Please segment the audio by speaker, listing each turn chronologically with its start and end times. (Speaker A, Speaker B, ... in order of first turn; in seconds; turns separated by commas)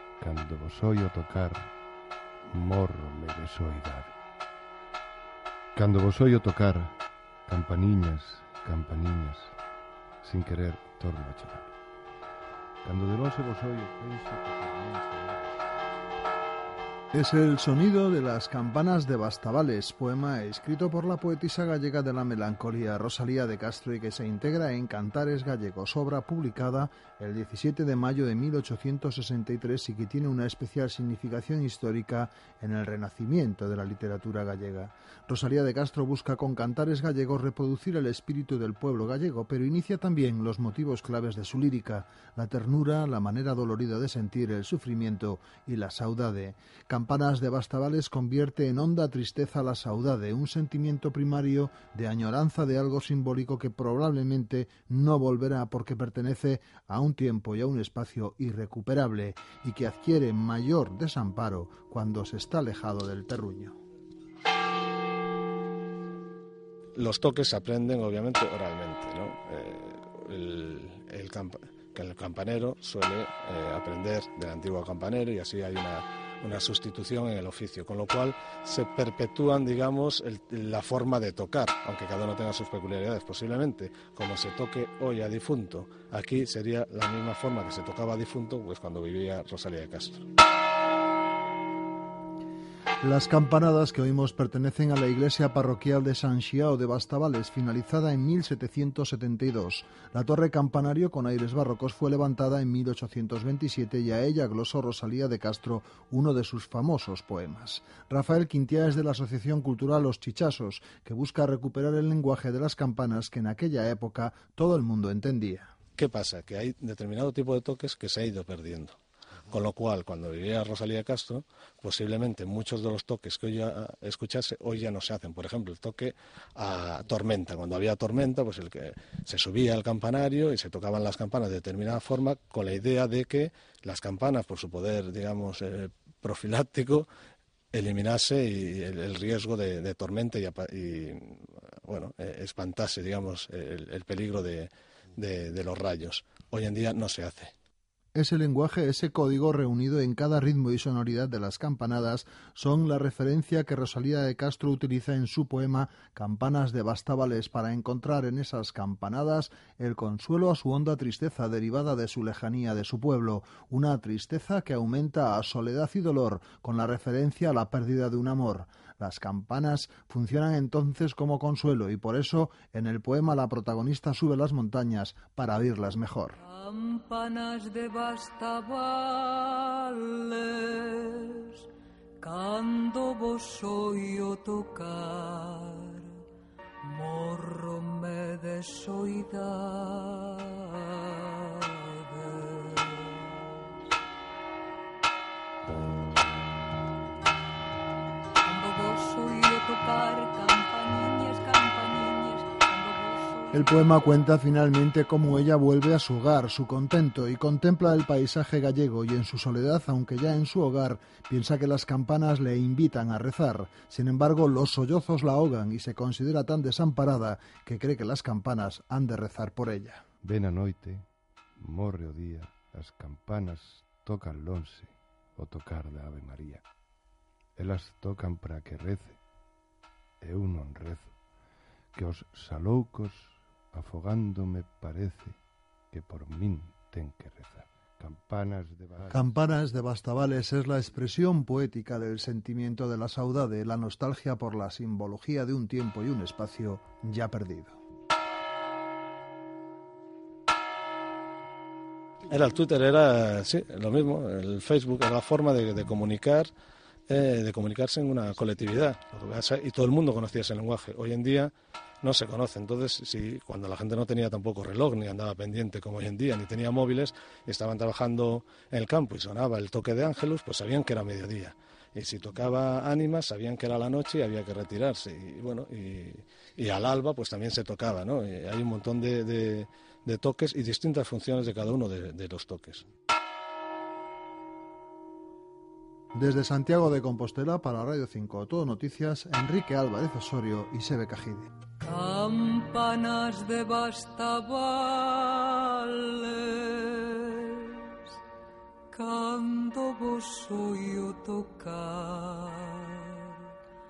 Speaker A: 0.2-1.7, Speaker A: 2.5-4.2, Speaker A: 5.8-9.6, Speaker A: 10.2-11.7, Speaker A: 12.8-15.6, Speaker B: 17.1-63.8, Speaker C: 67.0-90.3, Speaker B: 93.0-115.7, Speaker C: 116.0-119.0, Speaker C: 119.5-137.1, Speaker C: 137.7-147.5, Speaker B: 148.2-176.4, Speaker D: 176.4-181.7, Speaker D: 182.2-186.2, Speaker D: 186.8-193.7, Speaker D: 198.4-204.1, Speaker B: 203.5-220.0, Speaker A: 220.2-221.1, Speaker A: 221.6-226.6, Speaker A: 227.6-229.2, Speaker A: 230.2-231.1, Speaker A: 231.9-235.4, Speaker A: 235.9-239.2, Speaker B: 239.1-247.8, Speaker C: 252.3-256.5, Speaker C: 257.1-282.9, Speaker B: 286.1-291.5, Speaker D: 291.8-298.1, Speaker D: 298.9-303.5